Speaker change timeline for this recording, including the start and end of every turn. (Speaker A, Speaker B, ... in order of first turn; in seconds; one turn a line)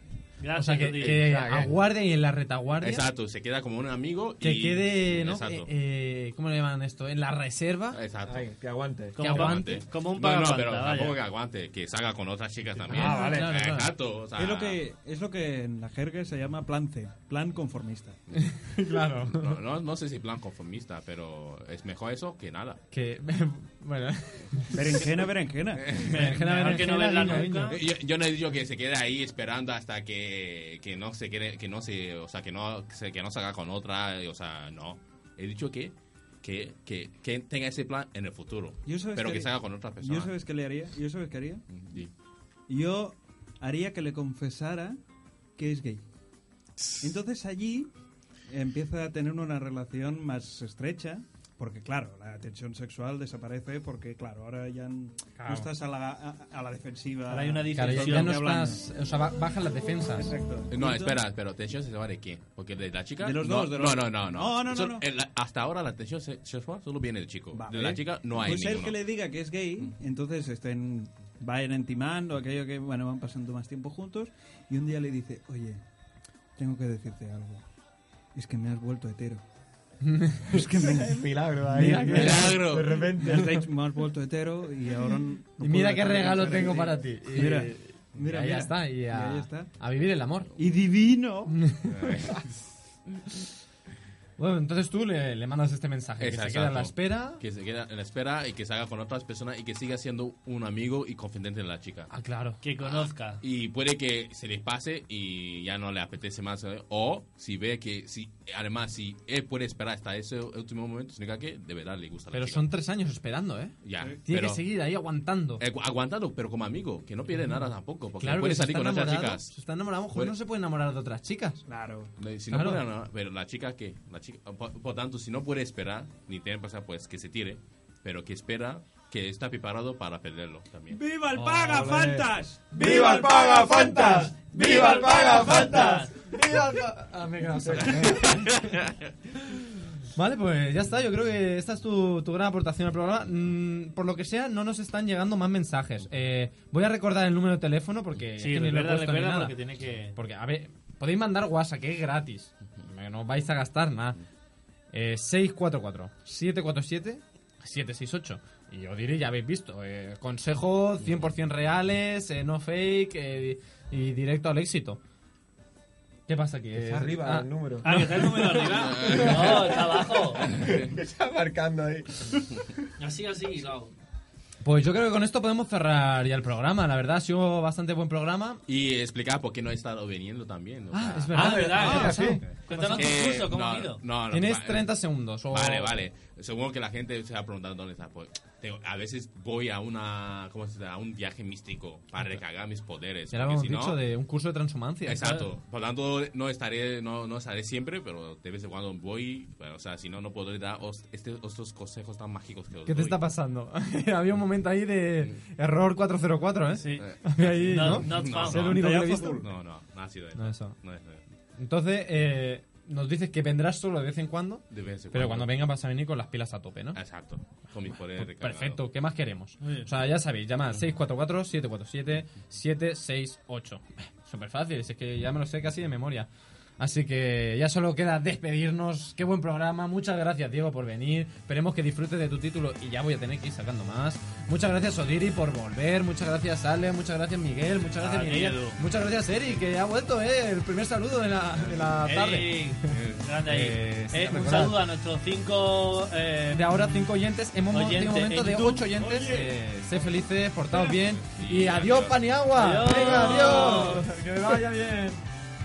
Speaker A: 0.4-1.3
Speaker B: 0.6-3.0
Speaker C: 1.0-1.5
Speaker D: 1.3-1.7
Speaker C: 2.8-5.7
Speaker B: 4.4-8.0
Speaker C: 7.9-8.4
Speaker D: 8.2-9.4
Speaker A: 9.2-11.2
Speaker B: 9.2-9.8
Speaker C: 9.2-14.8
Speaker B: 12.9-13.9
Speaker D: 12.9-13.4
Speaker E: 14.3-18.2
Speaker B: 18.3-19.6
Speaker C: 19.2-22.8
Speaker B: 22.9-25.1
Speaker E: 24.7-25.9
Speaker C: 25.8-26.2
Speaker B: 25.9-27.8
Speaker A: 26.0-27.8
Speaker C: 27.7-40.3
Speaker E: 38.9-41.6
Speaker C: 41.7-42.1
Speaker E: 42.7-45.0
Speaker E: 45.6-46.0
Speaker E: 47.0-47.9
Speaker E: 48.5-58.8
Speaker B: 55.4-55.7
Speaker A: 57.3-58.4
Speaker B: 57.7-60.3
Speaker E: 60.2-61.2
Speaker C: 60.7-69.0
Speaker E: 63.2-65.0
Speaker E: 67.5-75.8
Speaker E: 76.6-77.6
Speaker E: 78.3-79.4
Speaker B: 80.0-80.7
Speaker E: 80.5-82.6
Speaker D: 80.8-83.6
Speaker B: 81.7-82.7
Speaker C: 82.0-82.9
Speaker E: 83.1-89.7
Speaker B: 85.6-90.5
Speaker E: 90.6-91.6
Speaker B: 91.5-92.4
Speaker C: 91.9-92.6
Speaker B: 94.4-97.4
Speaker C: 96.2-102.1
Speaker B: 102.1-102.6
Speaker A: 102.6-103.4
Speaker C: 102.8-112.7
Speaker B: 112.3-113.7
Speaker C: 113.8-114.6
Speaker B: 114.2-115.6
Speaker C: 115.6-119.5
Speaker B: 118.2-121.6
Speaker E: 121.7-122.1
Speaker C: 122.2-131.0
Speaker B: 122.5-122.8
Speaker E: 130.9-133.5
Speaker B: 131.3-132.0
Speaker D: 131.7-135.9
Speaker B: 132.7-138.8
Speaker A: 134.6-136.1
Speaker D: 137.6-138.2
Speaker C: 138.3-139.1
Speaker B: 139.4-149.6
Speaker A: 148.4-150.2
Speaker B: 150.1-154.2
Speaker B: 154.9-165.0
Speaker B: 166.3-169.7
Speaker D: 166.7-167.9
Speaker A: 167.8-170.5
Speaker C: 168.7-169.6
Speaker D: 169.2-169.8
Speaker D: 170.4-172.5
Speaker A: 173.0-173.9
Speaker B: 174.6-178.6
Speaker C: 178.7-182.1
Speaker B: 180.9-183.2
Speaker A: 181.3-184.0
Speaker D: 181.8-182.4
Speaker C: 182.9-184.9
Speaker B: 184.3-186.0
Speaker C: 185.5-194.0
Speaker B: 193.3-195.4
Speaker C: 195.1-203.2
Speaker B: 202.8-209.4
Speaker A: 206.7-208.7
Speaker C: 207.0-211.2
Speaker E: 208.6-209.5
Speaker B: 210.3-210.8
Speaker B: 211.6-217.0
Speaker C: 214.7-215.5
Speaker C: 216.9-218.8
Speaker B: 217.9-244.8
Speaker A: 219.6-219.9
Speaker A: 238.0-238.8
Speaker A: 242.0-247.0
Speaker C: 242.9-243.2
Speaker B: 246.5-255.2
Speaker A: 247.7-248.9
Speaker C: 249.2-249.5
Speaker C: 250.8-252.2
Speaker A: 252.5-254.0